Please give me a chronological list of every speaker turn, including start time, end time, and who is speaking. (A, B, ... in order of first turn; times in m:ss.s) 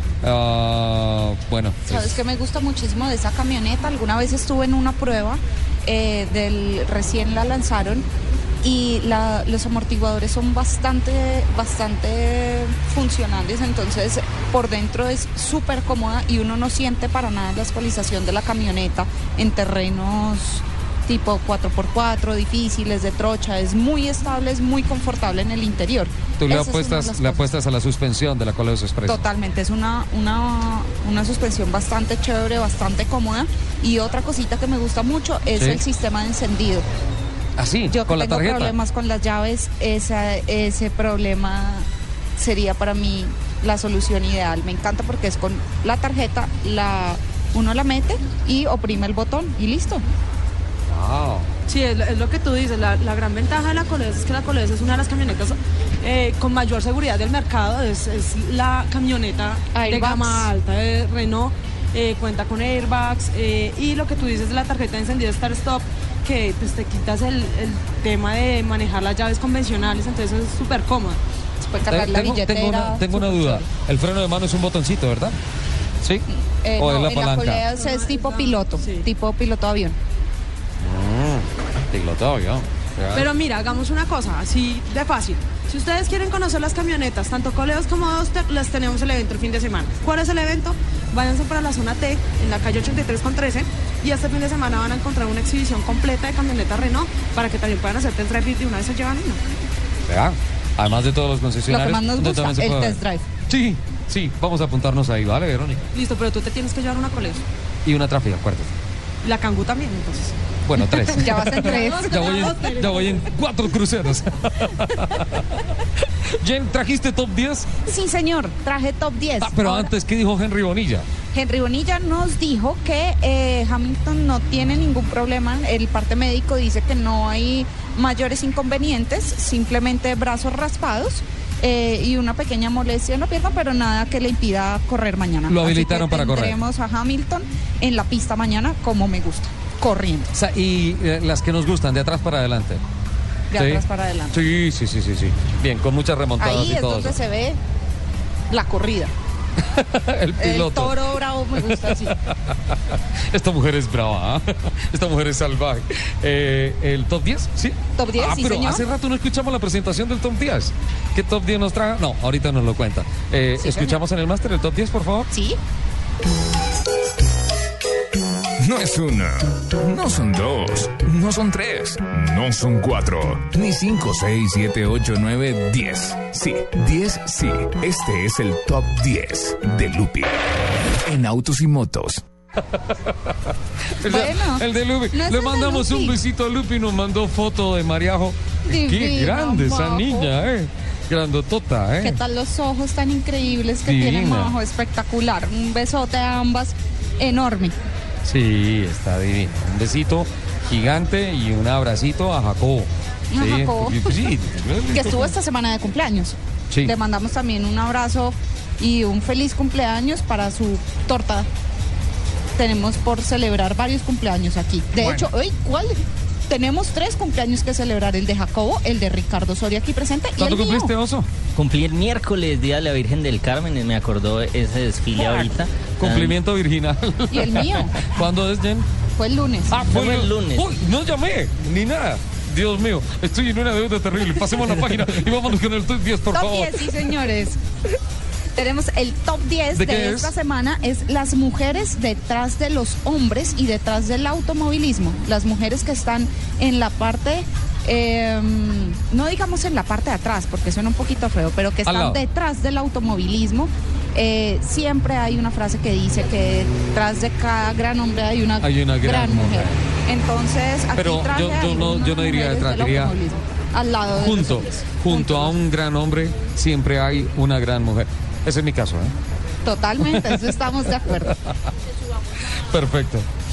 0:00.2-0:02.2 A
0:01.9-0:08.0 B
0:08.6-0:27.4 B
0:26.4-0:29.2 A
0:29.0-0:36.8 B
0:35.5-0:35.8 A
0:37.6-0:38.7 A
0:37.9-0:41.8 B
0:42.4-0:50.0 B
0:50.9-0:51.5 A
0:51.7-1:11.2 C
0:59.7-1:00.5 B
1:11.6-1:13.7 B
1:11.8-1:15.4 A
1:16.6-1:20.0 B
1:16.8-1:17.6 A
1:17.7-1:19.0 C
1:20.8-1:23.3 A
1:23.1-1:39.4 C
1:40.1-1:45.8 A
1:41.7-1:43.2 B
1:45.9-1:47.4 C
1:47.8-1:48.7 A
1:49.2-1:50.3 C
1:50.6-1:55.4 A
1:51.1-1:52.3 B
1:51.5-1:53.2 C
1:56.4-1:57.7 A
1:57.8-1:59.9 B
1:59.4-2:01.0 A
2:01.3-2:20.3 B
2:15.5-2:16.6 A
2:20.3-2:22.8 A
2:23.5-2:24.3 B
2:23.5-2:27.2 A
2:26.4-2:27.6 B
2:28.5-2:29.1 B
2:29.7-2:32.5 A
2:30.4-2:32.1 B
2:33.3-2:45.3 A
2:38.0-2:38.8 B
2:43.6-2:44.0 B
2:45.3-2:45.6 B
2:48.6-3:00.4 D
3:01.0-3:02.2 D
3:04.0-3:12.2 A
3:04.0-3:06.2 B
3:08.7-3:10.3 B
3:12.0-3:17.8 B
3:13.8-3:14.5 A
3:18.2-3:25.3 A
3:23.3-3:24.2 B
3:24.9-3:31.5 B
3:32.6-3:36.0 B
3:35.0-3:35.3 A
3:36.5-3:40.9 B
3:40.4-3:41.3 A
3:41.5-3:46.4 E
3:45.1-3:48.8 A
3:47.3-3:48.0 B
3:49.2-3:49.8 B
3:49.7-3:56.9 A
3:49.9-3:50.6 E
3:56.3-3:57.6 B
3:58.6-4:25.5 B
3:59.7-4:00.3 A
4:11.8-4:12.2 A
4:18.6-4:19.8 A
4:21.0-4:23.1 A
4:24.1-4:29.1 A
4:29.6-4:31.3 B
4:30.0-4:30.4 A
4:32.7-4:33.2 A